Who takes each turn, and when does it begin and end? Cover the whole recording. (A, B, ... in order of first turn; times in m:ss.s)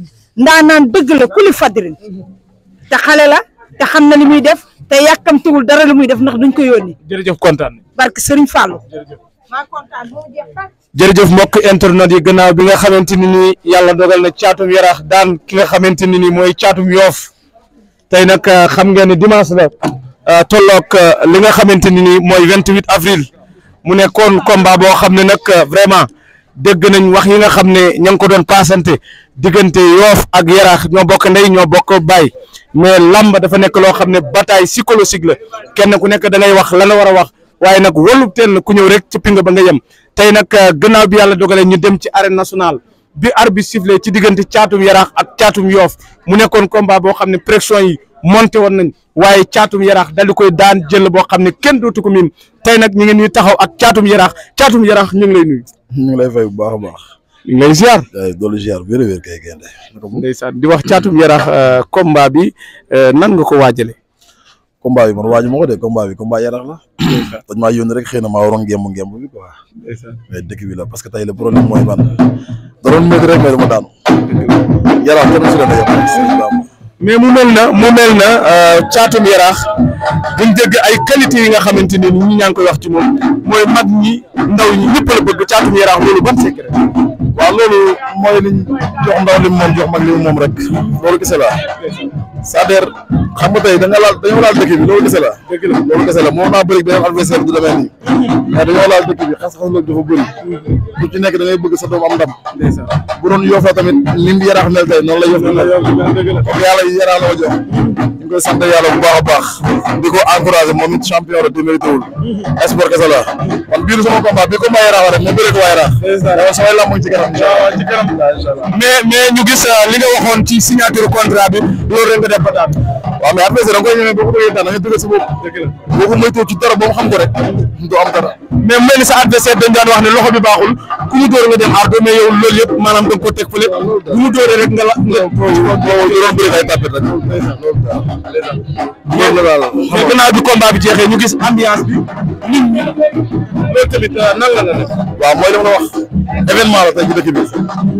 0:00.5-0:01.9 A
0:02.9-0:06.9 A
0:07.0-0:07.8 B
0:08.0-0:08.8 A
0:10.9-0:17.3 B
0:18.1-0:19.7 B
0:20.2-0:23.3 B
0:23.8-0:55.7 B
0:55.9-0:57.0 C
0:57.4-0:58.1 B
0:58.1-1:00.2 C
1:00.2-1:04.0 B
1:04.8-1:09.5 C
1:07.1-1:07.4 B
1:09.8-1:10.2 B
1:10.3-1:12.2 C
1:12.8-1:13.9 C
1:14.8-1:16.7 C
1:17.0-1:19.6 B
1:20.3-1:26.8 B
1:27.3-1:31.6 C
1:32.4-1:40.3 C
1:35.5-1:35.8 B
1:40.9-1:42.4 C
1:42.5-1:42.9 B
1:43.0-1:45.8 C
1:45.3-1:46.4 B
1:46.4-1:57.8 C
1:56.0-1:56.4 B
1:57.3-2:02.8 B
2:03.2-2:05.3 C
2:05.4-2:05.7 B
2:05.9-2:08.4 C
2:08.6-2:16.7 B
2:13.7-2:14.2 C
2:15.1-2:18.1 C
2:19.1-2:20.2 C
2:19.1-2:22.9 B
2:23.6-2:25.0 B
2:25.1-2:27.7 C